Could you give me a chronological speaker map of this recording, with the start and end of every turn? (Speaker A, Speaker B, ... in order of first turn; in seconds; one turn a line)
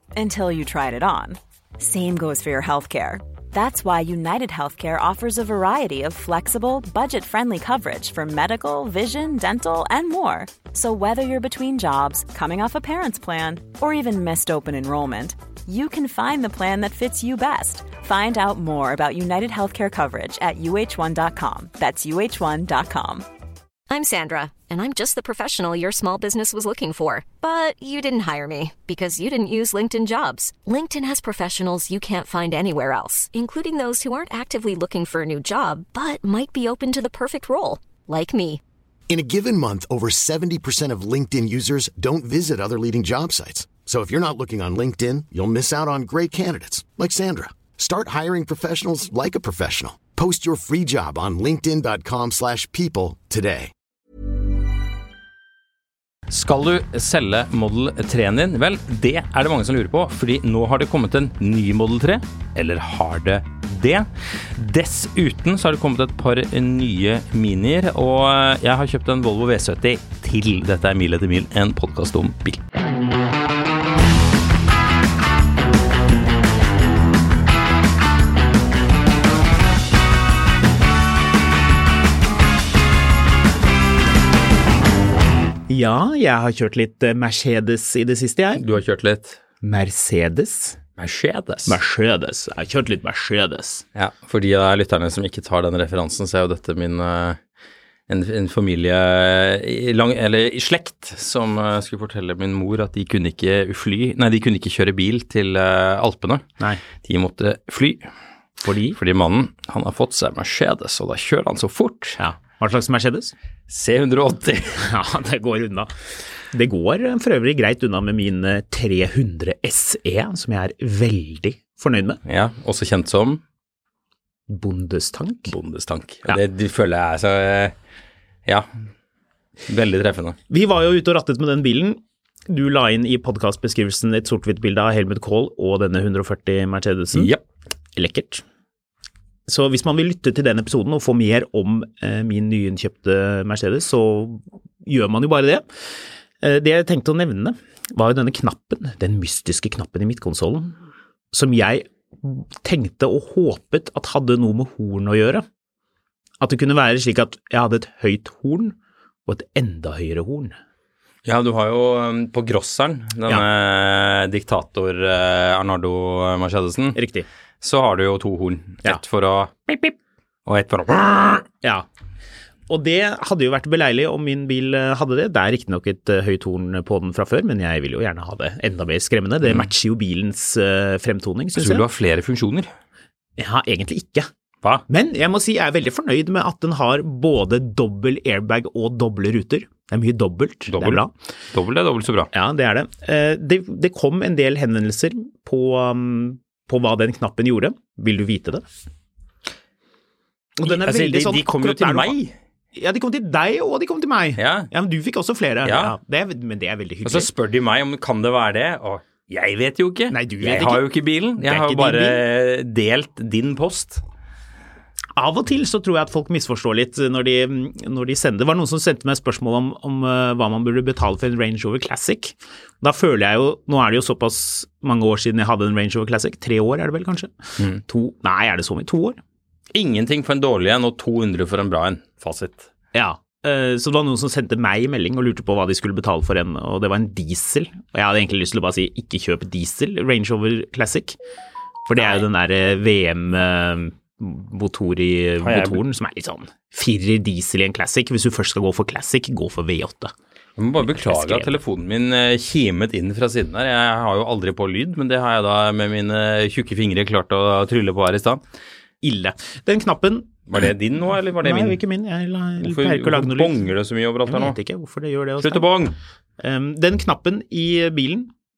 Speaker A: 0.1-23.2
Speaker B: 23.9-38.6
Speaker C: 39.1-53.7
Speaker D: 56.3-72.6
Speaker E: 85.7-88.6
Speaker D: 88.5-89.4
Speaker E: 89.6-90.8
Speaker D: 91.0-91.8
Speaker E: 91.7-93.8
Speaker D: 94.0-97.4
Speaker D: 98.1-106.5
Speaker D: 107.0-108.1
Speaker E: 108.6-109.0
Speaker D: 109.0-112.2
Speaker E: 112.2-113.3
Speaker D: 113.7-114.8
Speaker E: 114.8-115.9
Speaker E: 116.5-122.2
Speaker D: 122.3-123.4
Speaker E: 124.5-125.5
Speaker D: 125.5-127.7
Speaker D: 129.7-130.4
Speaker E: 130.5-137.3
Speaker D: 137.1-137.4
Speaker E: 137.9-138.4
Speaker E: 139.5-145.7
Speaker E: 146.4-150.8
Speaker E: 151.3-155.5
Speaker E: 156.4-158.8
Speaker E: 159.3-160.6
Speaker D: 161.3-167.0
Speaker E: 166.9-167.3
Speaker D: 167.6-169.9
Speaker D: 170.5-171.5
Speaker E: 172.7-181.8
Speaker D: 179.4-179.7
Speaker D: 181.6-182.7
Speaker E: 183.4-184.3
Speaker E: 184.9-191.1
Speaker D: 190.7-191.0
Speaker D: 191.5-192.3
Speaker E: 192.3-198.6
Speaker E: 200.6-202.2
Speaker D: 200.6-202.3
Speaker E: 202.8-207.3
Speaker D: 204.4-204.7
Speaker D: 205.6-206.0
Speaker D: 207.1-214.0
Speaker E: 210.1-210.9
Speaker E: 211.4-212.2
Speaker E: 215.2-229.2
Speaker D: 229.7-232.7
Speaker E: 232.9-241.2
Speaker E: 241.9-250.1
Speaker D: 242.0-242.2
Speaker D: 245.4-245.8
Speaker D: 250.6-258.4
Speaker E: 250.8-251.6
Speaker E: 259.0-260.4
Speaker D: 260.5-261.8
Speaker E: 261.4-263.6
Speaker D: 262.6-264.6
Speaker E: 264.3-265.7
Speaker D: 265.4-266.0
Speaker E: 266.4-268.3